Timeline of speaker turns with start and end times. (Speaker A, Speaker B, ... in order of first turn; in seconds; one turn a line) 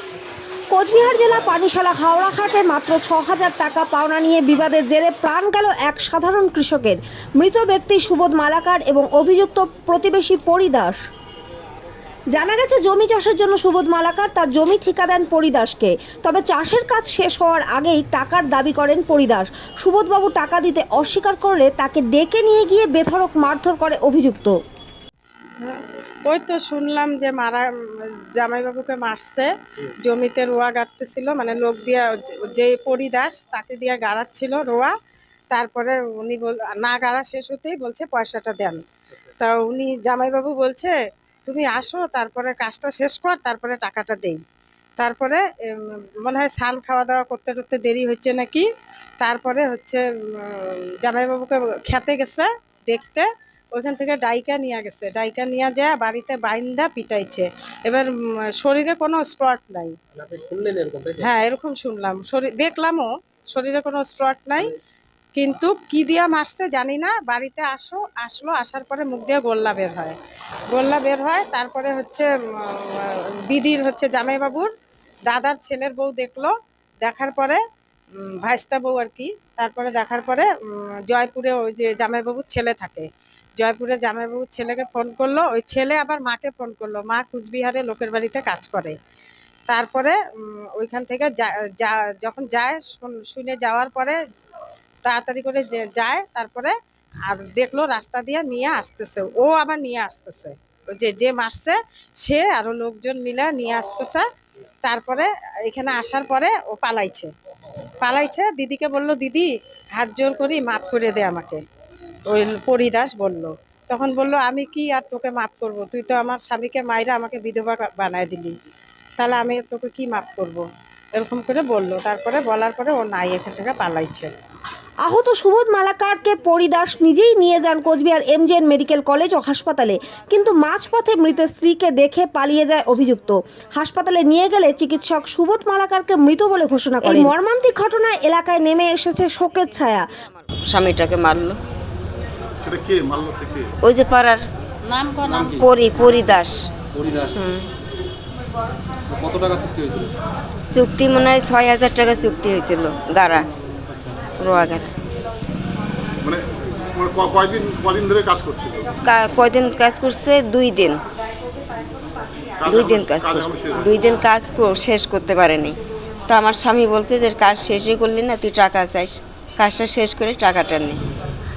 Speaker A: 0.7-11.0
Speaker A: 12.3-24.6
Speaker B: 25.6-29.5
Speaker B: 30.0-34.9
Speaker B: 35.5-38.8
Speaker B: 39.4-44.4
Speaker B: 45.0-48.7
Speaker B: 49.2-60.0
Speaker C: 60.1-61.3
Speaker B: 61.2-64.7
Speaker B: 65.3-70.2
Speaker B: 70.7-74.7
Speaker B: 75.3-77.6
Speaker B: 78.2-83.1
Speaker B: 83.6-89.0
Speaker B: 89.7-94.2
Speaker B: 95.0-96.7
Speaker B: 97.3-104.2
Speaker B: 104.8-107.3
Speaker B: 108.0-111.6
Speaker B: 112.3-118.5
Speaker B: 119.2-124.3
Speaker A: 125.0-140.1
Speaker D: 137.0-137.3
Speaker D: 140.7-141.6
Speaker E: 142.6-143.8
Speaker D: 143.8-144.4
Speaker C: 145.2-145.7
Speaker D: 145.5-146.6
Speaker C: 146.9-147.4
Speaker D: 147.3-147.7
Speaker C: 149.1-150.1
Speaker D: 150.7-153.5
Speaker C: 153.9-154.2
Speaker D: 154.4-154.9
Speaker E: 156.2-159.0
Speaker D: 159.1-161.0
Speaker E: 162.6-163.9
Speaker D: 162.6-165.8
Speaker D: 166.3-171.0